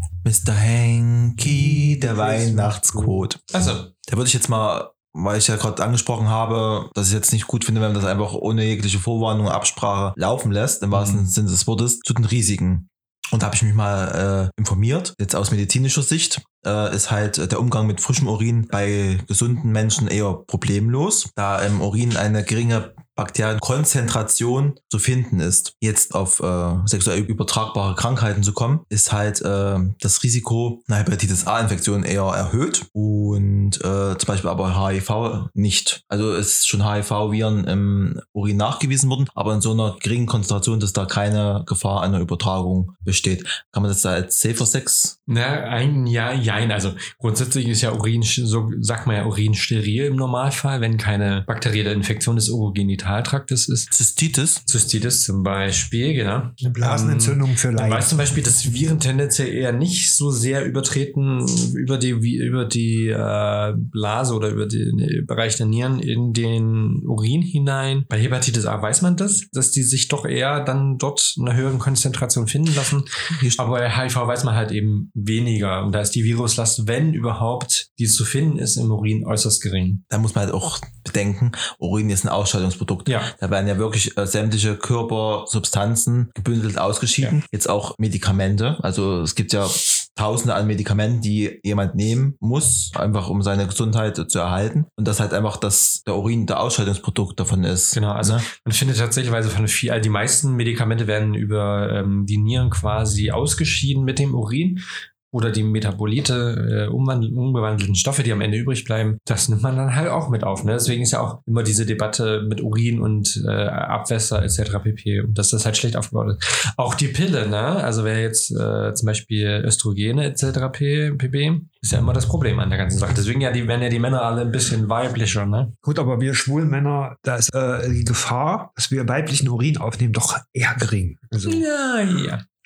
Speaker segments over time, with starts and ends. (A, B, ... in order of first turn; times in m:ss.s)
0:00.2-0:03.4 A
0:01.4-0:03.3 B
0:03.5-0:03.9 C
0:04.1-0:45.1 A
0:10.9-0:11.3 C
0:45.3-0:53.9 C
0:53.9-0:54.6 A
0:54.7-1:20.0 C
0:56.6-0:58.2 B
1:13.3-1:13.6 A
1:20.1-1:38.5 A
1:23.1-1:23.3 C
1:37.9-2:05.7 C
2:05.8-2:11.6 B
2:11.4-2:12.4 C